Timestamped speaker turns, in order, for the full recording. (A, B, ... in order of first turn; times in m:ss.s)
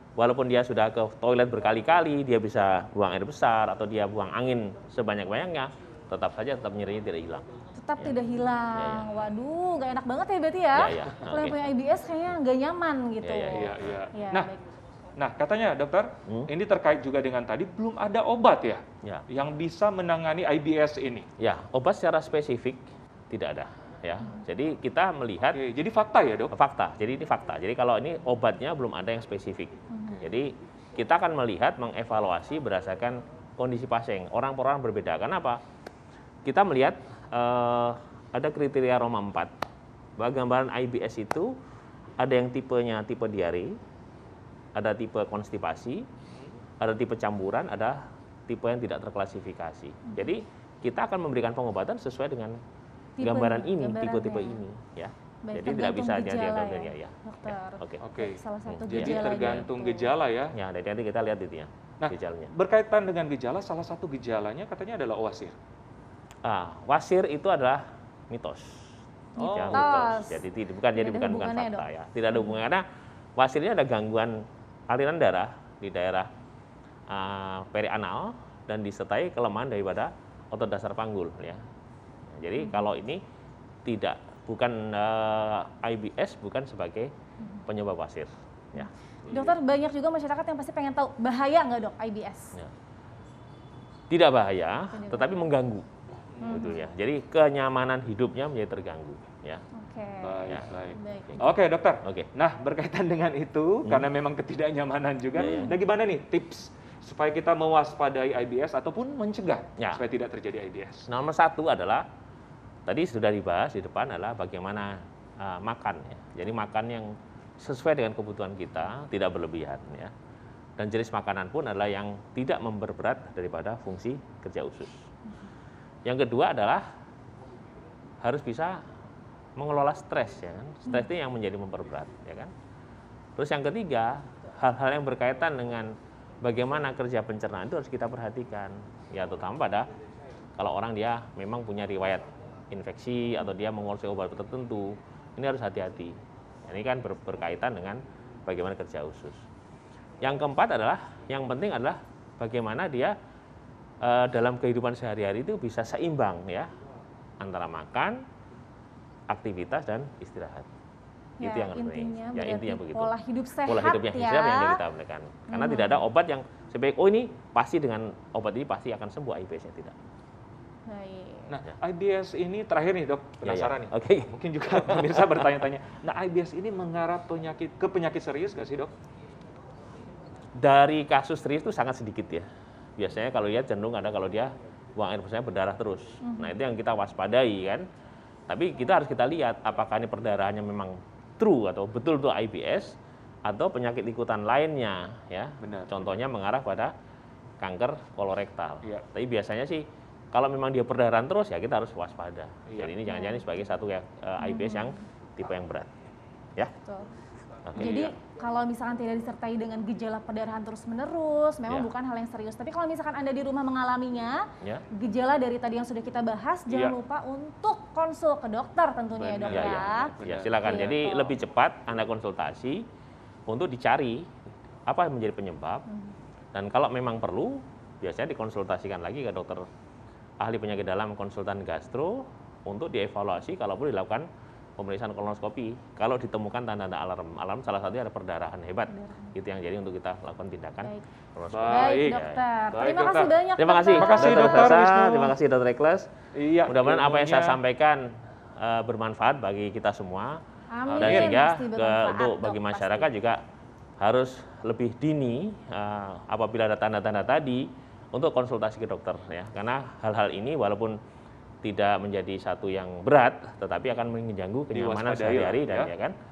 0:00.2-0:07.5 A
0:07.8-0:14.6 B
0:08.8-0:09.1 A
0:10.7-0:11.6 A
0:13.2-0:14.0 A
0:13.5-0:14.5 C
0:15.2-0:21.3 C
0:21.4-0:25.6 A
0:25.5-0:26.5 C
0:26.5-0:35.6 A
0:29.9-0:30.2 B
0:36.4-0:39.5 A
0:40.2-0:41.6 A
0:42.2-0:43.8 A
0:44.8-0:46.1 A
0:46.8-0:52.6 A
0:50.0-0:50.4 B
0:53.2-0:54.6 B
0:53.2-0:58.0 A
0:55.4-1:00.1 B
0:58.0-0:58.4 C
0:58.7-0:59.7 A
0:58.9-1:00.6 C
1:00.5-1:02.5 A
1:02.0-1:05.6 C
1:06.4-1:12.8 A
1:09.4-1:10.0 C
1:09.6-1:10.4 B
1:11.0-1:12.5 B
1:13.4-1:16.3 A
1:17.1-1:21.6 A
1:22.3-1:23.2 A
1:22.6-1:22.9 B
1:23.8-1:27.1 A
1:27.7-1:28.9 A
1:28.8-1:32.6 B
1:34.1-1:35.9 A
1:34.9-1:35.5 B
1:36.4-1:36.6 C
1:36.4-1:36.8 B
1:36.4-1:39.6 A
1:39.7-1:41.5 B
1:40.2-1:51.1 C
1:45.4-1:45.8 A
1:45.4-1:45.7 B
1:51.1-1:52.0 A
1:52.9-2:00.1 A
2:00.8-2:05.1 A
2:06.0-2:06.8 A
2:08.2-2:08.8 A
2:09.6-2:12.5 A
2:13.4-2:19.9 A
2:20.6-2:26.2 A
2:26.7-2:29.4 A
2:30.2-2:33.2 A
2:34.0-2:36.7 A
2:37.4-2:38.2 A
2:39.3-2:40.7 A
2:41.4-2:44.8 B
2:41.4-2:43.1 A
2:43.7-2:49.9 A
2:45.5-2:46.0 B
2:50.9-2:51.5 B
2:51.5-2:58.9 C
2:53.4-2:55.5 A
3:00.6-3:02.4 A
3:03.0-3:07.8 A
3:06.2-3:06.6 B
3:08.5-3:16.9 A
3:15.6-3:16.1 C
3:17.6-3:25.9 A
3:23.1-3:23.5 B
3:24.4-3:25.0 B
3:27.7-3:28.0 A
3:27.8-3:41.4 B
3:27.8-3:28.1 C
3:36.7-3:37.0 C
3:39.2-3:41.0 C
3:39.5-3:42.8 A
3:43.5-3:44.3 A
3:44.9-3:45.9 A
3:46.5-3:49.7 A
3:50.4-4:02.4 A
3:58.9-3:59.3 B
4:01.5-4:03.4 C
4:01.7-4:04.7 B
4:03.6-4:06.1 A
4:04.0-4:05.4 C
4:06.4-4:07.6 C
4:06.7-4:10.4 A
4:10.7-4:13.1 B
4:10.9-4:13.4 A
4:11.0-4:11.4 C
4:14.0-4:21.0 A
4:21.6-4:26.2 A
4:24.7-4:25.9 C